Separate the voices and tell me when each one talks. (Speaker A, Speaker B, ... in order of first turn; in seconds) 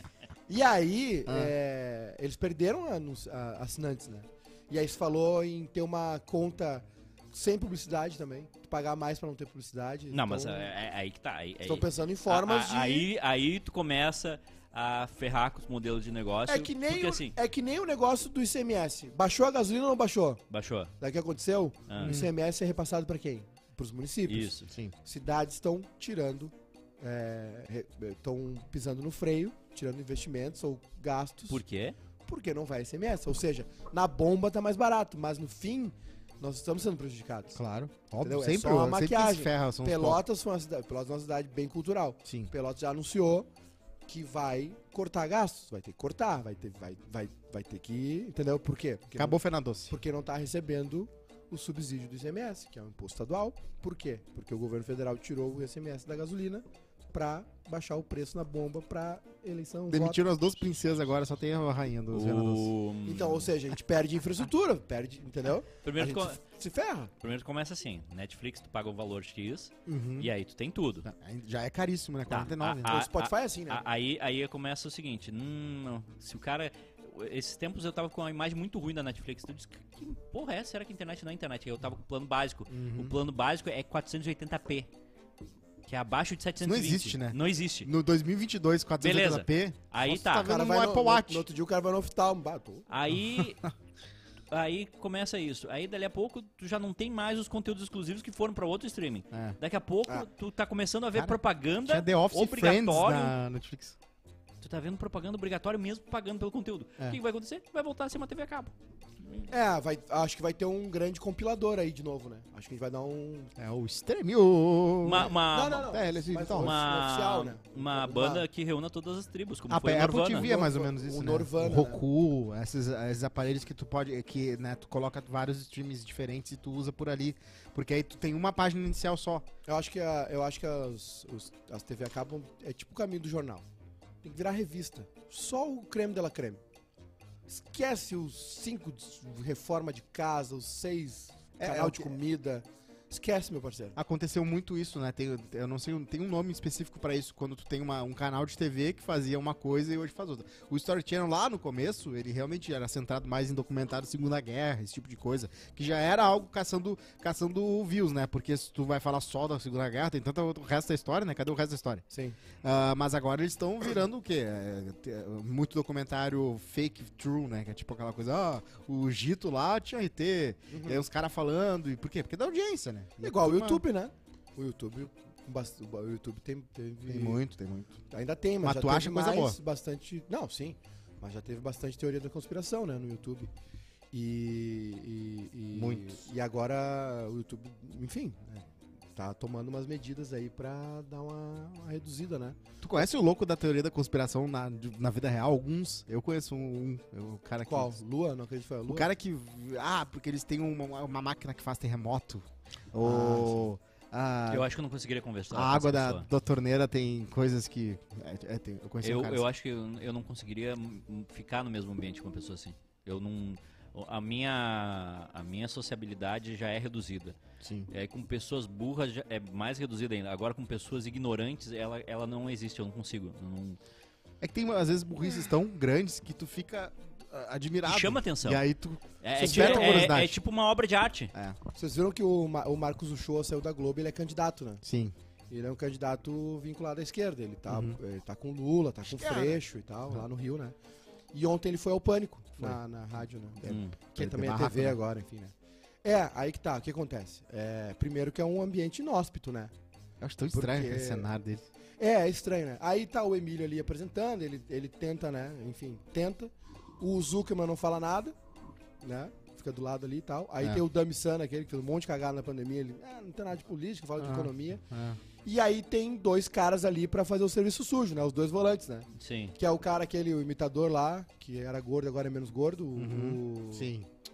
Speaker A: 0.5-10.7, 11.6-13.1, 16.5-20.4, 21.0-31.6, 32.2-37.6, 38.2-43.5, 44.1-60.2, 63.0-67.1, 72.8-73.8, 90.4-92.8, 109.5-113.5, 115.1-118.5, 120.3-122.0, 129.7-133.7, 134.2-136.6, 137.5-144.0, 162.1-162.4, 170.7-171.0, 173.2-177.4, 178.1-183.5, 184.1-192.6, 197.7-199.1, 203.0-203.6, 229.4-230.2, 231.7-234.8, 235.5-240.7, 241.3-249.7, 250.5-251.3, 252.0-258.4, 259.0-264.8, 265.4-273.9
Speaker B: 1.3-1.5, 22.0-22.3, 24.7-24.9, 37.5-40.2, 49.1-50.0, 59.9-62.7, 69.8-70.3, 71.0-72.9, 82.7-83.2, 86.6-91.5, 99.3-99.6, 101.1-104.0, 113.6-116.8, 119.7-129.4, 141.6-142.2, 143.9-162.0, 162.6-173.8, 177.1-178.0, 178.6-179.6, 185.7-186.2, 192.8-198.0, 198.9-204.7, 205.5-209.4, 217.6-217.9, 224.4-230.4, 234.8-235.1, 237.7-238.0, 239.1-240.2, 243.6-245.0, 250.2-251.6, 264.2-265.2, 272.9-274.1
Speaker C: 10.1-17.3, 20.5-20.9, 21.9-22.2, 24.3-24.7, 31.5-31.9, 62.1-63.5, 65.8-66.4, 67.2-71.1, 72.3-84.9, 85.8-87.9, 89.0-90.5, 92.9-93.7, 94.5-103.3, 104.6-108.7, 115.0-115.9, 116.5-120.5, 204.5-206.3, 209.0-217.4, 217.9-223.8, 227.8-228.6, 229.2-231.3, 243.6-244.0, 269.1-269.6